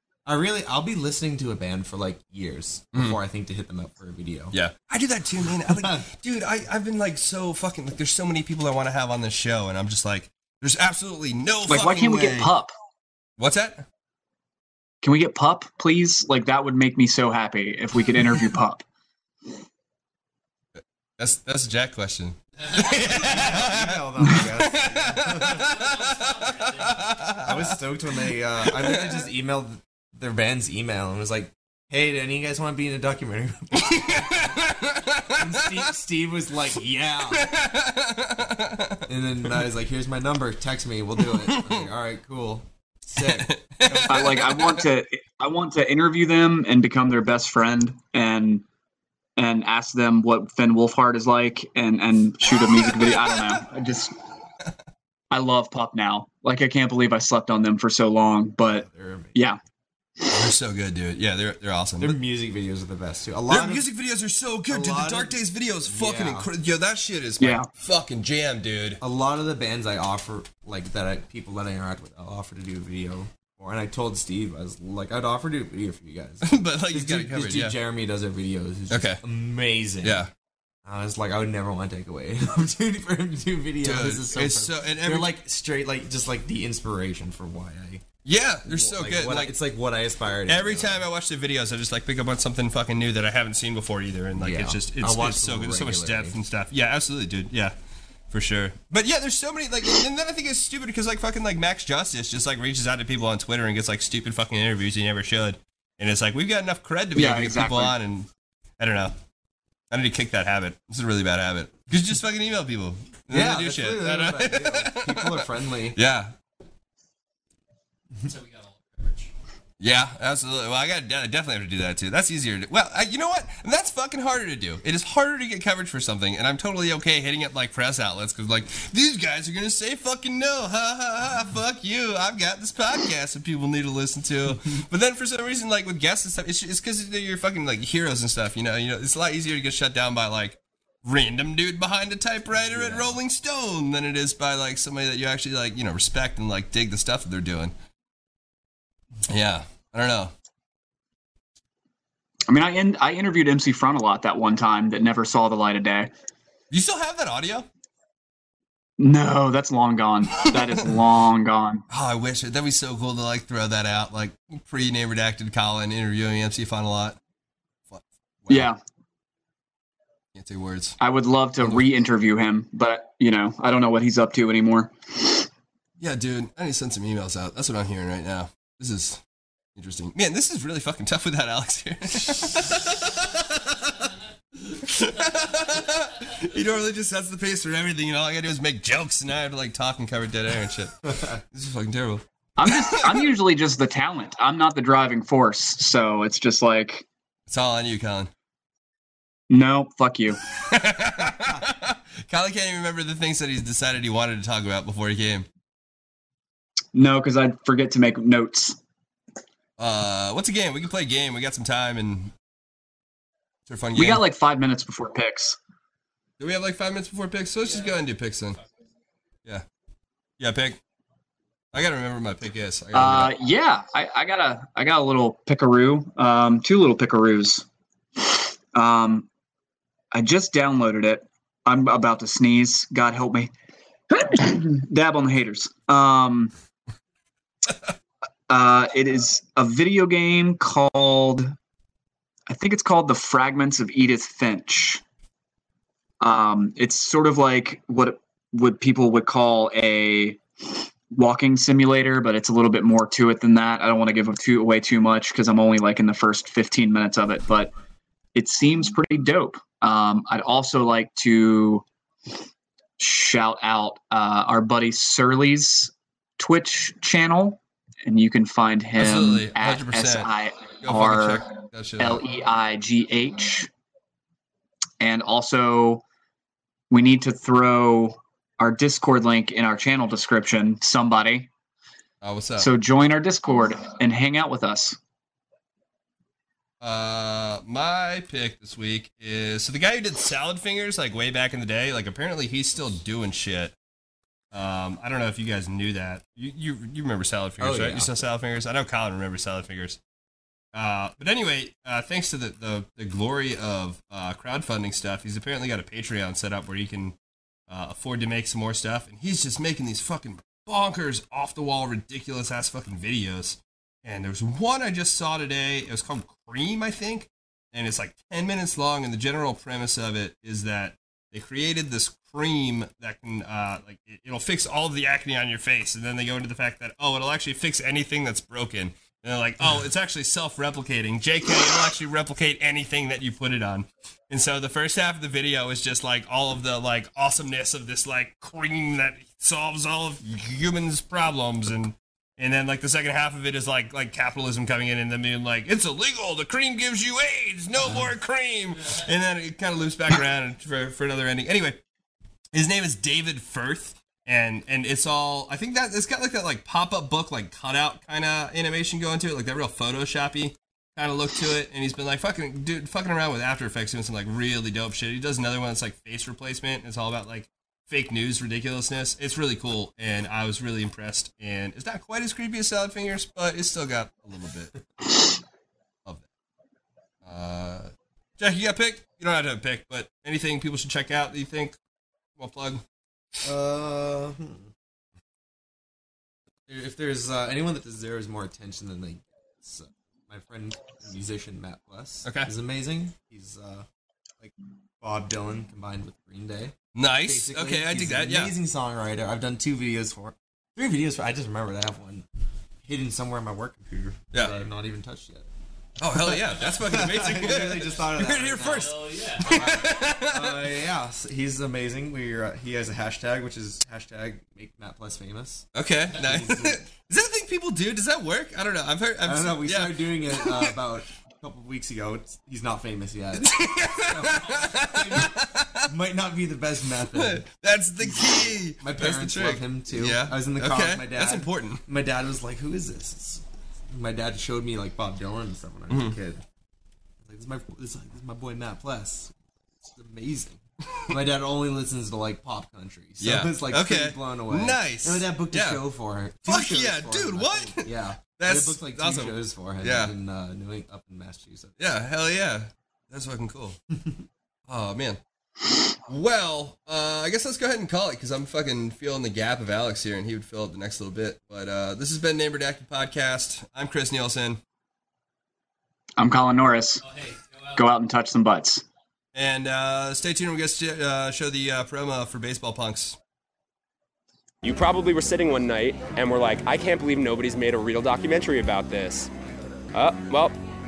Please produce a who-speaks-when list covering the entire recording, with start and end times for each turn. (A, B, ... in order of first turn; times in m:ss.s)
0:00.3-0:04.6 A
0:02.9-0:03.2 B
0:04.5-0:12.5 B
0:05.6-0:06.0 A
0:11.7-0:12.7 C
0:13.4-0:13.8 B
0:15.0-0:18.8 C
0:20.8-0:27.7 B
0:22.9-0:26.2 A
0:27.4-0:34.6 A
0:28.6-0:29.2 B
0:33.8-0:35.9 B
0:35.2-0:37.5 A
0:37.3-0:39.1 B
0:39.1-0:44.3 A
0:41.2-0:41.8 B
0:43.2-0:44.9 B
0:44.1-0:48.6 C
0:49.4-0:54.1 C
0:52.7-0:53.6 B
0:55.3-0:59.6 C
0:58.7-0:59.5 A
1:00.3-1:02.2 B
1:02.0-1:03.9 A
1:03.5-1:09.0 B
1:04.7-1:06.5 A
1:07.4-1:07.7 C
1:09.0-1:20.3 A
1:16.4-1:17.8 B
1:18.9-1:19.2 B
1:20.0-1:20.3 B
1:20.8-1:28.0 A
1:23.8-1:25.4 B
1:28.2-1:29.6 B
1:28.6-1:31.1 A
1:30.5-1:37.7 B
1:34.4-1:36.4 A
1:38.3-1:49.1 B
1:47.2-1:48.0 C
1:49.9-1:56.3 B
1:53.3-1:56.0 A
1:59.8-2:27.7 B
2:22.5-2:23.2 A
2:29.3-2:30.3 B
2:32.5-2:36.1 C
2:36.7-2:37.7 B
2:39.0-2:41.8 C
2:41.9-2:47.2 B
2:47.9-2:48.7 B
2:48.5-2:48.8 C
2:50.4-2:51.0 B
2:51.0-2:55.5 C
2:56.0-2:59.2 B
2:59.8-3:11.0 B
3:11.0-3:11.4 A
3:11.5-3:13.3 B
3:12.6-3:17.1 C
3:17.5-3:18.3 B
3:19.5-3:20.4 C
3:20.6-3:25.5 B
3:26.9-3:28.8 C
3:29.8-3:32.3 B
3:33.7-3:34.2 B
3:34.0-3:35.6 C
3:36.4-3:38.6 B
3:40.4-3:40.8 B
3:41.7-3:43.4 B
3:42.9-3:47.6 C
3:48.2-3:49.3 C
3:50.1-3:53.5 C
3:54.1-3:56.5 C
3:58.5-4:01.5 C
4:02.5-4:05.0 C
4:06.2-4:10.4 C
4:11.1-4:17.7 C
4:18.4-4:21.8 C
4:23.0-4:33.7 C
4:29.0-4:30.3 B
4:30.8-4:32.2 B
4:35.0-4:36.0 C
4:36.9-4:41.5 C
4:42.2-4:42.7 B
4:42.6-4:45.0 C
4:46.8-4:53.7 B
4:54.5-5:00.0 B
4:57.6-4:58.1 A
5:00.7-5:07.2 B
5:07.7-5:51.8 B
5:47.8-5:48.1 A
5:52.5-6:14.8 B
6:17.2-6:21.8 B
6:22.4-6:22.8 B
6:23.4-6:24.7 A
6:26.7-6:33.9 A
6:32.2-6:32.5 B
6:34.4-6:42.2 A
6:36.9-6:38.5 B
6:42.8-6:45.5 A
6:44.3-6:44.6 B
6:46.0-6:50.7 B
6:46.1-6:56.8 A
6:55.7-7:00.7 B
6:59.2-7:07.4 A
7:03.4-7:05.9 B
7:07.1-7:11.8 B
7:08.0-7:16.4 A
7:15.9-7:16.2 B
7:17.2-7:31.8 A
7:23.2-7:25.8 B
7:26.4-7:30.1 B
7:31.8-7:33.8 B
7:34.7-7:35.2 B
7:36.0-7:44.6 B
7:46.2-7:47.0 C
7:47.7-7:48.8 C
7:49.3-7:53.2 B
7:54.6-7:59.3 D
7:59.9-8:00.6 D